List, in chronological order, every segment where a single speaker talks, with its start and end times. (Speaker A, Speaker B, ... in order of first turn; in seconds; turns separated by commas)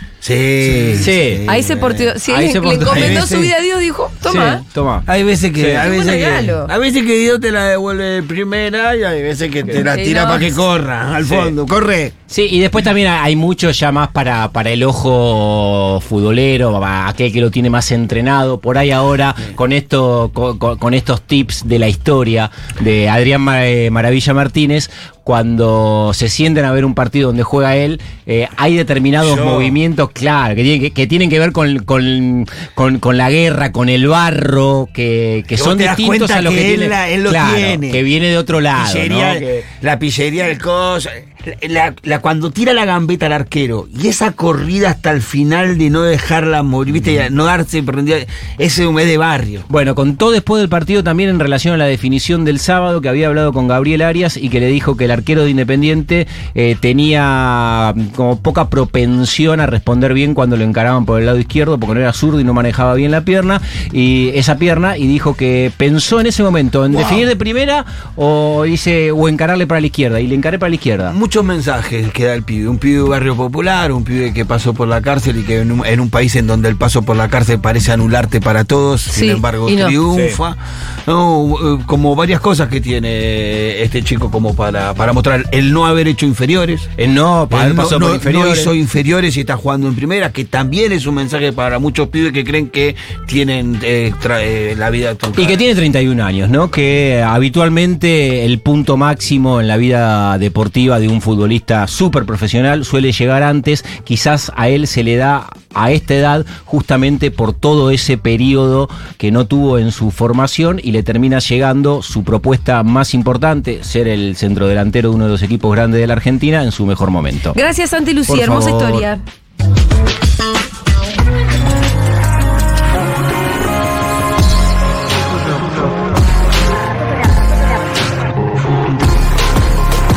Speaker A: 0.2-2.1, Speaker B: 1.0-1.4, Speaker C: 1.4-4.6, Speaker B: 2.2-3.3, Speaker A: 2.9-3.5, Speaker B: 4.2-5.9, Speaker A: 5.0-12.1, Speaker C: 5.8-6.7, Speaker C: 9.7-10.5, Speaker B: 11.2-11.5, Speaker B: 12.3-39.6, Speaker A: 29.2-29.8, Speaker A: 35.5-38.0, Speaker A: 38.7-49.7, Speaker B: 49.7-71.1, Speaker A: 66.9-67.3, Speaker A: 71.1-86.9, Speaker C: 79.1-80.0, Speaker B: 80.1-80.4, Speaker B: 87.0-88.7, Speaker A: 87.5-95.6, Speaker B: 95.3-117.6, Speaker C: 117.5-119.2, Speaker B: 118.3-119.1